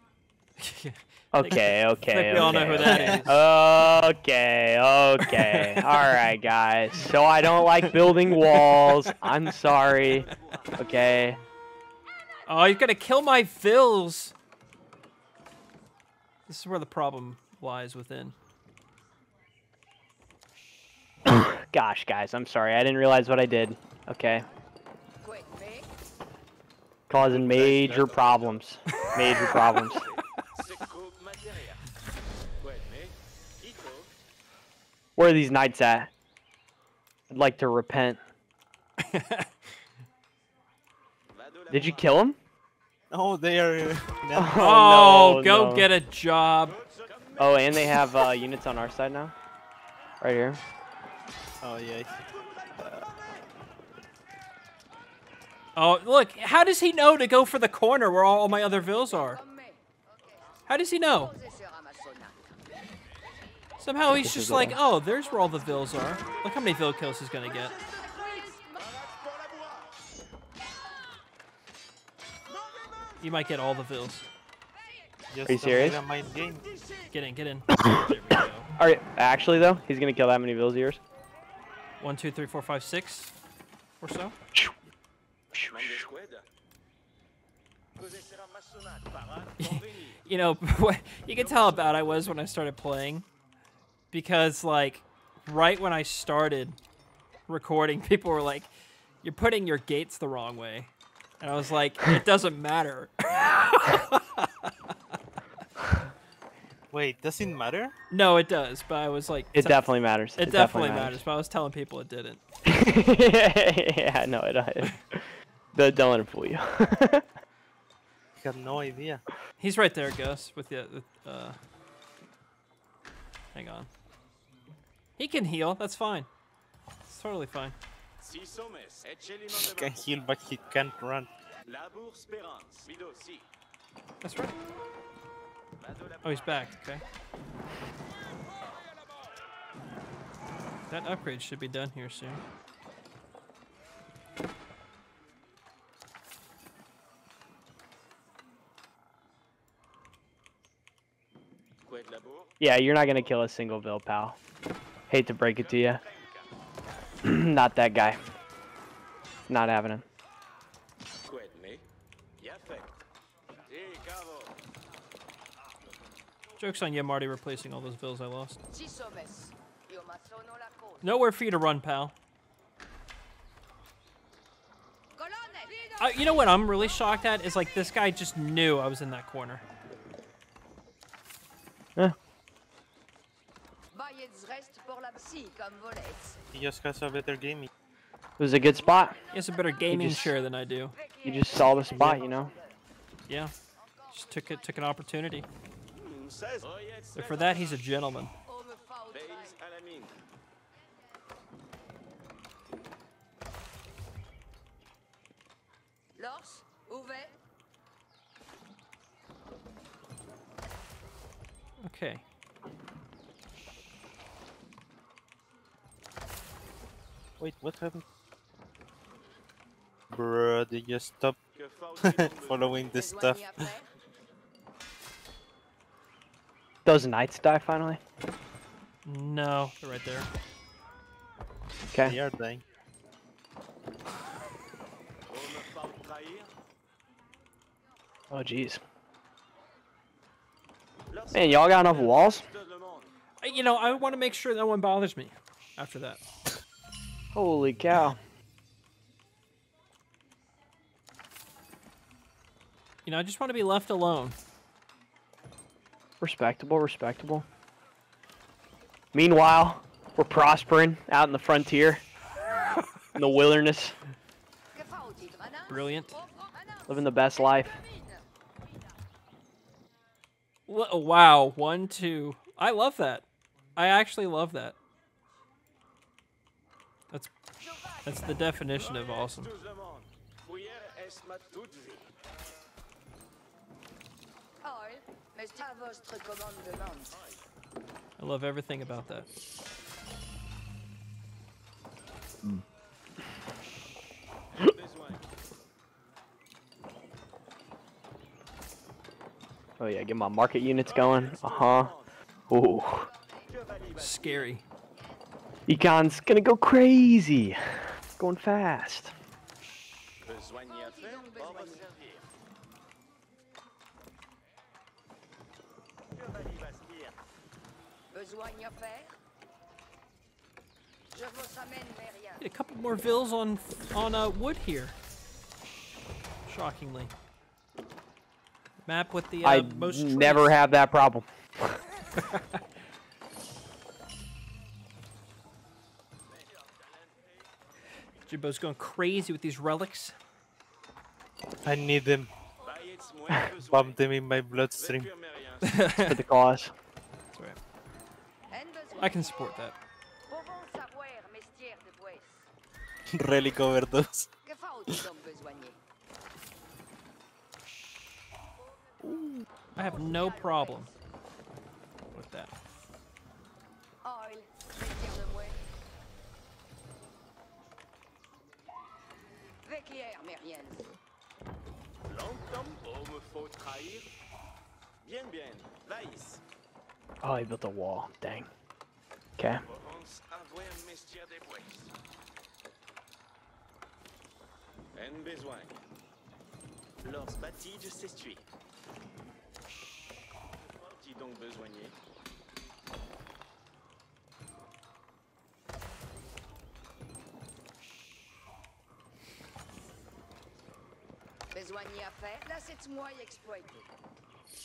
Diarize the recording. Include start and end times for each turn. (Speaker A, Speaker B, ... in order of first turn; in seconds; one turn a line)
Speaker A: 0.6-3.3
Speaker B: 1.3-11.4
Speaker A: 5.2-6.2
Speaker A: 8.4-9.1
Speaker C: 9.7-11.2
Speaker A: 12.5-14.3
Speaker A: 16.5-18.4
Speaker B: 21.2-24.4
Speaker D: 25.2-25.9
Speaker B: 27.1-30.0
Speaker E: 27.1-28.2
Speaker C: 28.1-29.1
Speaker C: 29.6-31.8
Speaker C: 32.6-34.1
Speaker B: 35.2-36.1
Speaker B: 37.3-38.2
Speaker A: 39.0-39.5
Speaker C: 41.3-42.2
Speaker B: 41.7-42.4
Speaker E: 43.1-44.6
Speaker B: 44.3-45.9
Speaker A: 44.5-46.8
Speaker C: 46.6-48.0
Speaker B: 47.4-49.3
Speaker B: 50.2-50.6
Speaker E: 51.6-52.1
Speaker C: 52.2-53.5
Speaker A: 55.8-59.4
Speaker D: 58.8-62.6
Speaker A: 60.7-61.3
Speaker A: 63.8-67.7
Speaker B: 64.2-64.8
Speaker D: 67.7-68.9
Speaker C: 68.8-70.0
Speaker C: 72.5-73.1
Speaker A: 73.2-74.3
Speaker E: 75.3-76.7
Speaker B: 75.5-76.0
Speaker A: 77.1-78.7
Speaker B: 77.8-81.0
Speaker A: 82.0-83.3
Speaker A: 84.0-84.3
Speaker B: 85.5-86.1
Speaker C: 85.7-86.5
Speaker C: 88.0-90.2
Speaker A: 89.6-93.3
Speaker C: 91.4-92.3
Speaker A: 94.1-96.8
Speaker A: 97.5-98.7
Speaker A: 99.2-104.7
Speaker E: 106.9-107.9
Speaker A: 108.1-109.8
Speaker B: 109.5-111.2
Speaker A: 110.4-112.4
Speaker B: 112.6-117.2
Speaker E: 118.4-119.2
Speaker A: 119.6-121.6
Speaker A: 123.5-123.9
Speaker A: 125.2-126.3
Speaker A: 127.1-127.8
Speaker C: 128.2-130.0
Speaker E: 129.5-131.3
Speaker C: 131.6-133.5
Speaker A: 134.2-134.6
Speaker C: 135.8-136.7
Speaker A: 136.2-137.0
Speaker C: 138.6-138.9
Speaker A: 140.9-142.4
Speaker C: 151.9-152.5
Speaker B: 152.6-154.4
Speaker B: 155.1-156.0
Speaker C: 155.4-156.5
Speaker B: 157.2-158.2
Speaker B: 159.5-160.0
Speaker C: 161.2-161.8
Speaker C: 162.4-163.0
Speaker C: 163.6-164.6
Speaker A: 166.6-168.6
Speaker D: 168.7-171.1
Speaker A: 171.0-172.1
Speaker D: 175.2-176.6
Speaker A: 176.0-179.6
Speaker D: 183.9-186.4
Speaker E: 186.5-187.7
Speaker B: 188.4-189.2
Speaker D: 189.1-190.2
Speaker A: 189.3-190.9
Speaker B: 189.9-190.3
Speaker D: 190.9-192.8
Speaker B: 191.2-192.5
Speaker A: 193.3-193.5
Speaker D: 193.8-194.9
Speaker A: 194.1-195.5
Speaker C: 195.9-197.8
Speaker A: 197.1-198.3
Speaker D: 198.4-199.6
Speaker C: 199.1-200.2
Speaker D: 206.2-207.3
Speaker A: 211.8-212.2
Speaker E: 217.4-218.0
Speaker E: 220.1-221.3
Speaker C: 221.5-223.1
Speaker E: 222.0-223.7
Speaker D: 222.9-223.9
Speaker B: 226.8-228.0
Speaker A: 229.0-230.3
Speaker B: 231.9-232.2
Speaker E: 232.0-232.6
Speaker C: 235.3-236.5
Speaker B: 238.3-238.8
Speaker C: 241.1-243.1
Speaker B: 241.3-242.4
Speaker A: 243.4-246.2
Speaker B: 247.3-248.2
Speaker A: 253.1-254.4
Speaker B: 256.2-257.4
Speaker B: 259.1-262.0
Speaker B: 263.1-264.0
Speaker D: 264.7-268.2
Speaker A: 265.7-266.1
Speaker B: 266.9-267.8
Speaker A: 270.7-274.8
Speaker D: 277.6-278.5
Speaker A: 278.0-279.5
Speaker C: 278.7-282.1
Speaker D: 284.6-287.2
Speaker C: 287.1-287.4
Speaker A: 288.2-289.3
Speaker C: 294.6-295.2
Speaker B: 299.8-301.9
Speaker C: 300.8-302.1
Speaker B: 302.5-303.1
Speaker D: 302.9-303.5
Speaker C: 303.5-304.5
Speaker A: 304.0-304.6
Speaker B: 305.7-309.1
Speaker C: 310.2-312.2
Speaker D: 310.7-311.9
Speaker C: 316.1-317.2
Speaker D: 318.1-319.1
Speaker D: 321.1-322.4
Speaker A: 322.4-324.9
Speaker A: 326.5-327.1
Speaker A: 328.9-330.6
Speaker B: 329.4-331.8
Speaker C: 336.3-337.4
Speaker A: 338.3-340.1
Speaker E: 341.6-342.3
Speaker C: 342.6-344.1
Speaker E: 343.7-345.1
Speaker C: 344.7-345.9
Speaker A: 345.6-346.2
Speaker B: 346.0-346.7
Speaker A: 347.3-347.6
Speaker D: 348.5-349.4
Speaker A: 349.0-349.7
Speaker D: 350.3-352.4
Speaker E: 353.1-354.3
Speaker D: 354.4-355.8
Speaker D: 359.0-360.9
Speaker A: 359.0-360.9
Speaker A: 362.1-362.6
Speaker D: 364.0-365.6
Speaker D: 369.6-370.9
Speaker C: 372.1-374.1
Speaker C: 375.0-376.4
Speaker B: 377.2-378.5
Speaker B: 379.4-379.6
Speaker C: 379.6-381.9
Speaker C: 384.9-385.8
Speaker C: 387.0-388.5
Speaker C: 390.6-392.0
Speaker D: 401.5-403.9